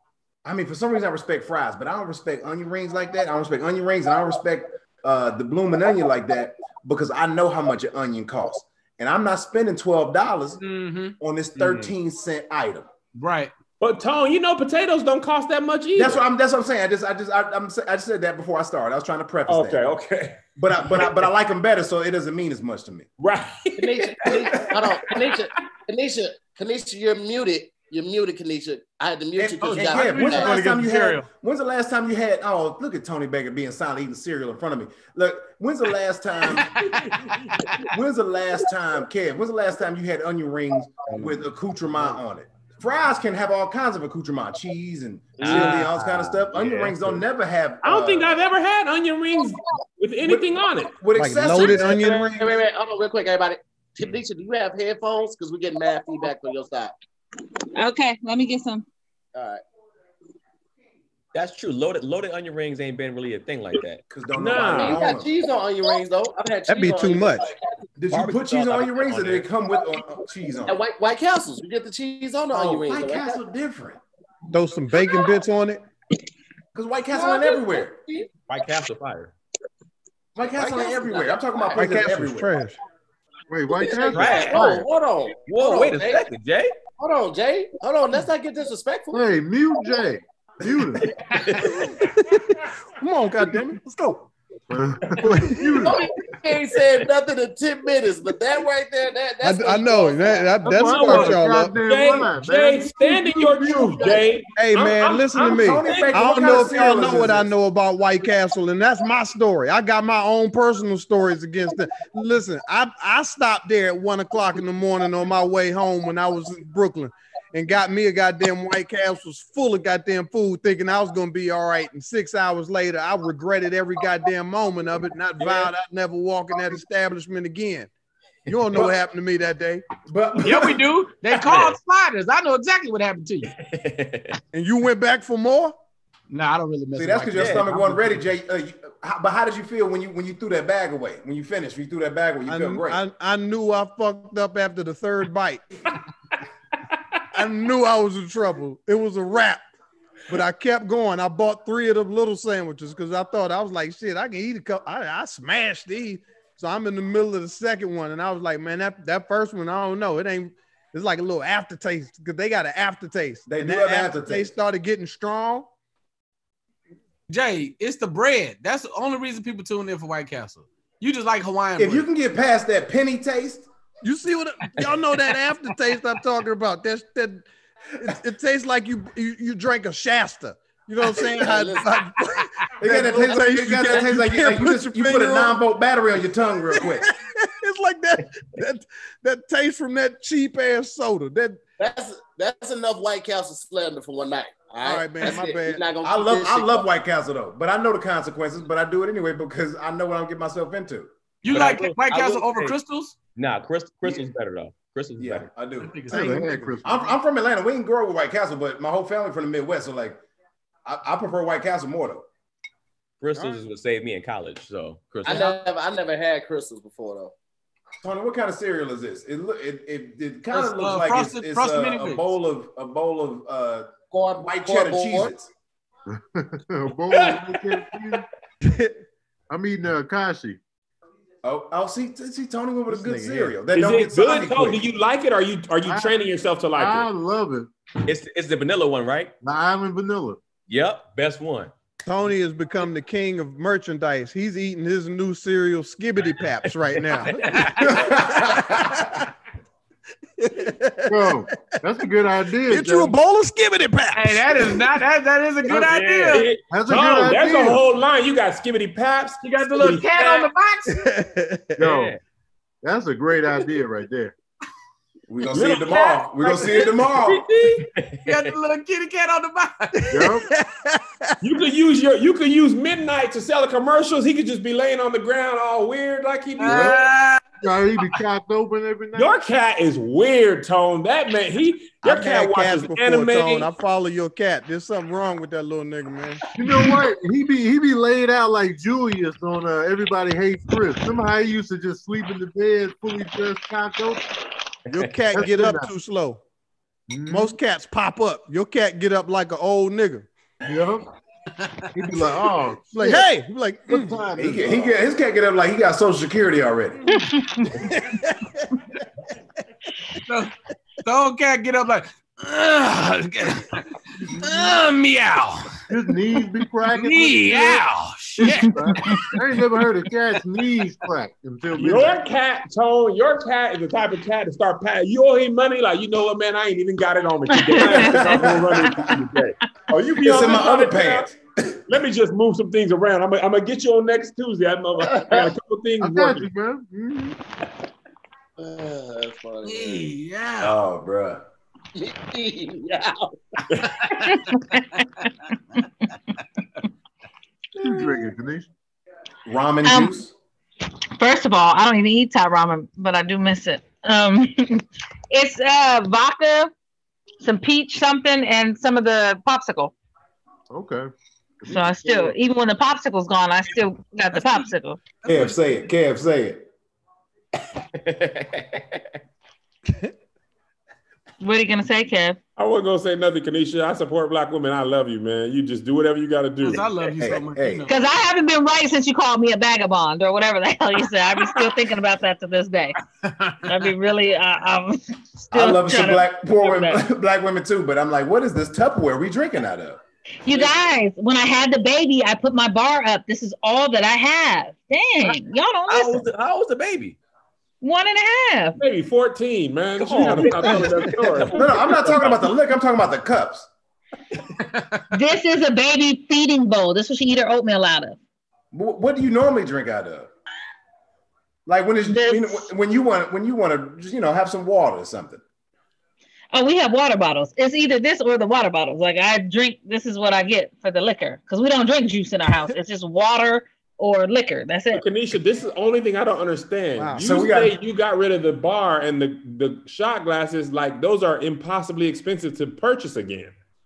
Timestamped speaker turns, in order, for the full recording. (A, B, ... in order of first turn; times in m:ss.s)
0:00.4-0:10.6 A
0:10.6-0:11.6 B
0:11.2-0:12.9 A
0:13.2-0:13.5 B
0:13.8-0:16.2 C
0:16.0-0:19.9 A
0:19.5-0:21.2 C
0:20.5-0:23.1 A
0:23.2-0:25.4 C
0:23.8-0:30.5 D
0:29.4-0:36.9 A
0:29.6-0:31.2 B
0:36.7-0:37.8 B
0:37.3-0:37.6 C
0:37.9-0:48.4 A
0:45.4-0:47.2 E
0:47.8-0:51.0 C
0:50.2-0:52.4 A
0:51.1-0:52.5 F
0:51.9-0:56.9 D
0:57.7-0:58.8 G
0:59.3-0:59.6 D
1:01.3-1:04.0 E
1:04.1-1:05.3 A
1:04.3-1:05.0 C
1:04.8-1:07.6 D
1:06.7-1:07.4 F
1:08.0-1:10.8 A
1:08.1-1:09.5 E
1:10.6-1:13.4 D
1:12.5-1:14.0 A
1:14.5-1:15.8 F
1:16.7-1:18.0 A
1:17.1-1:18.3 D
1:18.5-1:19.3 E
1:20.4-1:22.5 A
1:20.6-1:21.4 D
1:21.7-1:22.8 F
1:23.5-1:24.8 H
1:24.0-1:26.2 D
1:24.1-1:24.6 E
1:25.5-1:26.7 E
1:27.0-1:29.2 D
1:29.1-1:31.1 H
1:31.2-1:31.9 E
1:31.3-1:31.6 B
1:31.9-1:34.2 F
1:34.7-1:36.0 H
1:35.2-1:35.9 F
1:35.8-1:40.5 D
1:39.4-1:41.8 F
1:40.6-1:44.2 H
1:40.8-1:46.2 C
1:44.6-2:07.9 F
1:44.8-1:47.5 A
2:08.5-2:09.8 F
2:10.0-2:10.8 A
2:10.4-2:13.5 B
2:11.4-2:11.8 E
2:13.6-2:14.4 E
2:14.5-2:15.7 F
2:16.3-2:18.2 B
2:17.0-2:23.0 A
2:17.4-2:17.6 E
2:22.5-2:25.6 F
2:27.3-2:29.6 F
2:30.3-2:45.7 F
2:43.5-2:44.5 A
2:47.3-2:52.0 B
2:51.8-2:53.6 A
2:54.0-2:57.5 F
2:58.0-3:05.6 F
3:01.4-3:01.9 D
3:02.8-3:07.1 A
3:06.7-3:11.6 F
3:11.8-3:16.8 D
3:14.8-3:15.8 F
3:16.0-3:21.1 A
3:21.4-3:23.2 B
3:21.5-3:22.8 E
3:23.3-3:25.5 E
3:25.2-3:30.2 A
3:25.8-3:27.1 B
3:26.1-3:27.0 H
3:26.1-3:26.4 F
3:30.8-3:32.2 A
3:33.2-3:35.6 E
3:33.3-3:33.6 F
3:35.2-3:37.3 D
3:38.0-3:45.5 A
3:40.5-3:42.2 B
3:44.1-3:45.3 D
3:46.1-3:48.2 H
3:47.1-3:47.8 C
3:48.6-3:49.0 F
3:49.5-3:50.6 H
3:51.4-3:54.8 A
3:52.9-3:53.6 F
3:53.7-3:57.1 C
3:55.8-3:56.1 H
3:56.7-3:57.7 H
3:58.0-3:59.3 E
3:59.4-4:00.4 H
4:00.7-4:01.7 E
4:02.0-4:08.2 F
4:06.6-4:08.0 E
4:07.4-4:07.9 B
4:07.8-4:09.1 A
4:10.4-4:11.9 F
4:11.1-4:13.1 H
4:12.6-4:14.9 F
4:14.1-4:16.5 B
4:15.7-4:16.5 E
4:16.3-4:20.5 C
4:16.7-4:17.8 H
4:19.4-4:21.1 B
4:21.0-4:21.8 F
4:21.8-4:22.2 H
4:21.8-4:22.2 E
4:22.8-4:24.3 H
4:25.3-4:27.4 A
4:25.5-4:26.7 C
4:25.9-4:26.9 B
4:27.5-4:30.2 B
4:27.9-4:28.5 E
4:30.0-4:31.3 F
4:30.1-4:30.5 H
4:31.4-4:37.0 C
4:36.6-4:37.4 B
4:36.6-4:37.0 H
4:37.6-4:39.4 H
4:39.1-4:43.7 C
4:42.0-4:46.4 F
4:46.5-4:54.2 H
4:54.9-4:56.4 F
4:55.3-4:55.9 H
4:57.1-4:57.5 H
4:57.3-5:00.3 F
5:00.6-5:01.1 H
5:01.6-5:02.0 B
5:01.9-5:03.3 H
5:02.9-5:04.2 F
5:03.9-5:05.0 H
5:04.3-5:07.0 A
5:07.1-5:07.9 G
5:07.9-5:08.6 F
5:10.2-5:10.5 B
5:11.0-5:15.9 B
5:15.9-5:17.8 H
5:16.9-5:19.4 B
5:18.4-5:22.2 H
5:18.4-5:19.3 G
5:21.8-5:31.3 C
5:27.5-5:29.1 G
5:27.8-5:29.0 A
5:30.2-5:31.8 A
5:31.9-5:36.5 C
5:36.0-5:37.4 H
5:38.6-5:40.1 D
5:39.6-5:40.8 B
5:40.6-5:41.4 A
5:42.0-5:43.6 D
5:44.1-5:45.0 G
5:47.8-5:48.7 H
5:49.4-5:50.3 A
5:49.8-5:50.1 G
5:51.2-5:56.7 G
5:57.4-5:59.9 G
6:00.7-6:01.1 H
6:01.6-6:02.3 H
6:01.7-6:05.0 G
6:04.3-6:04.7 B
6:05.2-6:05.6 B
6:05.2-6:06.6 A
6:07.9-6:09.1 E
6:11.4-6:12.4 G
6:12.6-6:16.9 C
6:16.6-6:17.9 B
6:17.2-6:17.9 A
6:17.9-6:23.0 G
6:21.5-6:21.8 C
6:23.1-6:23.9 B
6:23.6-6:27.0 G
6:25.5-6:30.0 A
6:30.4-6:36.2 G
6:35.9-6:37.2 E
6:37.8-6:38.8 G
6:38.8-6:41.6 C
6:40.0-6:42.4 E
6:41.4-6:43.7 A
6:44.6-6:45.1 B
6:45.1-6:48.2 G
6:48.7-6:50.3 A
6:51.6-6:55.4 A
6:52.0-6:52.6 G
6:56.5-7:05.0 G
7:04.9-7:13.5 C
7:07.0-7:07.2 F
7:07.2-7:07.7 A